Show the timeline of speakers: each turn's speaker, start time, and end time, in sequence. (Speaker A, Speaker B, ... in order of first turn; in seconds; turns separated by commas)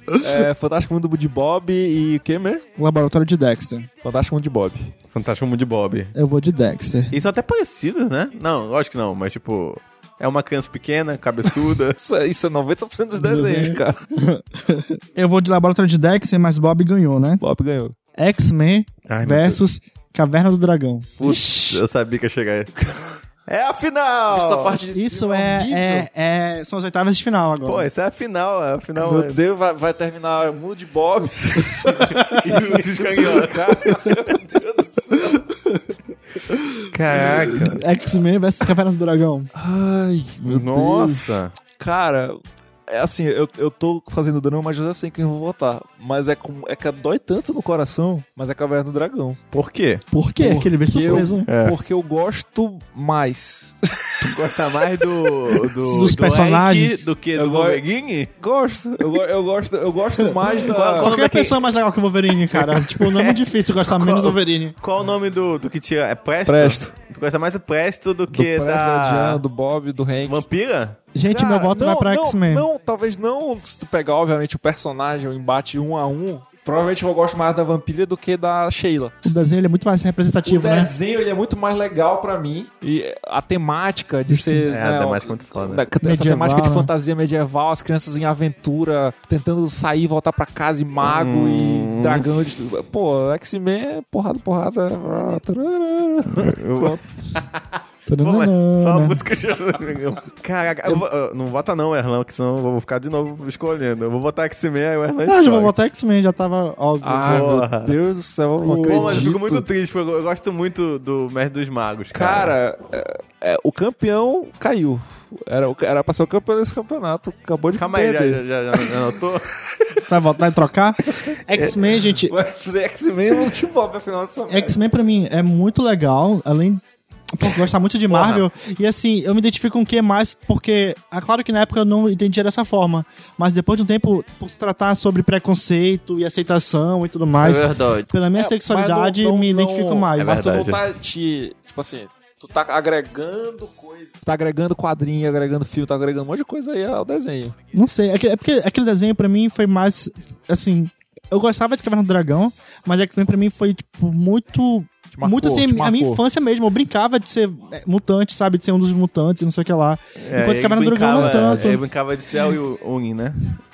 Speaker A: 0.2-2.6, Speaker B: 2.8-3.9, Speaker A: 4.0-4.9, Speaker C: 5.1-6.1, Speaker B: 6.2-7.2, Speaker C: 7.1-12.0, Speaker A: 12.0-14.0, Speaker B: 13.2-17.4, Speaker A: 17.4-17.9, Speaker B: 18.1-21.2, Speaker C: 19.1-19.6, Speaker A: 21.2-21.8, Speaker C: 21.2-22.7, Speaker A: 22.8-23.1, Speaker C: 23.4-24.8, Speaker A: 24.3-26.1, Speaker B: 24.9-27.9, Speaker C: 27.6-29.4, Speaker A: 29.0-35.4, Speaker C: 32.1-34.1, Speaker C: 36.9-37.8, Speaker B: 37.5-39.5, Speaker A: 39.5-49.4, Speaker C: 40.4-41.5, Speaker C: 49.5-50.0, Speaker B: 50.1-51.5, Speaker A: 50.4-54.3, Speaker C: 51.5-51.8, Speaker C: 54.2-58.3, Speaker B: 55.8-57.0, Speaker A: 57.4-57.8, Speaker A: 58.4-61.1, Speaker C: 60.5-61.6, Speaker B: 61.0-64.8, Speaker C: 62.5-69.4, Speaker A: 66.5-66.9, Speaker A: 68.3-70.5, Speaker C: 70.2-71.0, Speaker B: 71.1-72.7, Speaker A: 71.2-79.3, Speaker B: 79.2-80.9, Speaker A: 80.4-97.0, Speaker B: 84.3-84.7, Speaker C: 84.7-85.8, Speaker B: 86.0-86.9, Speaker C: 91.0-92.2, Speaker C: 96.3-105.7, Speaker B: 98.1-99.2, Speaker B: 105.2-107.5, Speaker A: 107.0-109.7, Speaker C: 107.2-107.9, Speaker B: 108.6-109.3, Speaker C: 108.8-112.5, Speaker A: 112.1-118.9, Speaker C: 117.7-119.5, Speaker B: 120.0-122.3, Speaker A: 122.2-124.8, Speaker B: 124.5-126.8, Speaker B: 127.3-140.4, Speaker C: 128.1-128.4, Speaker C: 137.4-138.1, Speaker A: 138.3-147.5, Speaker C: 140.2-140.8, Speaker B: 147.7-161.8, Speaker A: 155.1-156.2, Speaker C: 160.2-163.6, Speaker A: 161.1-161.8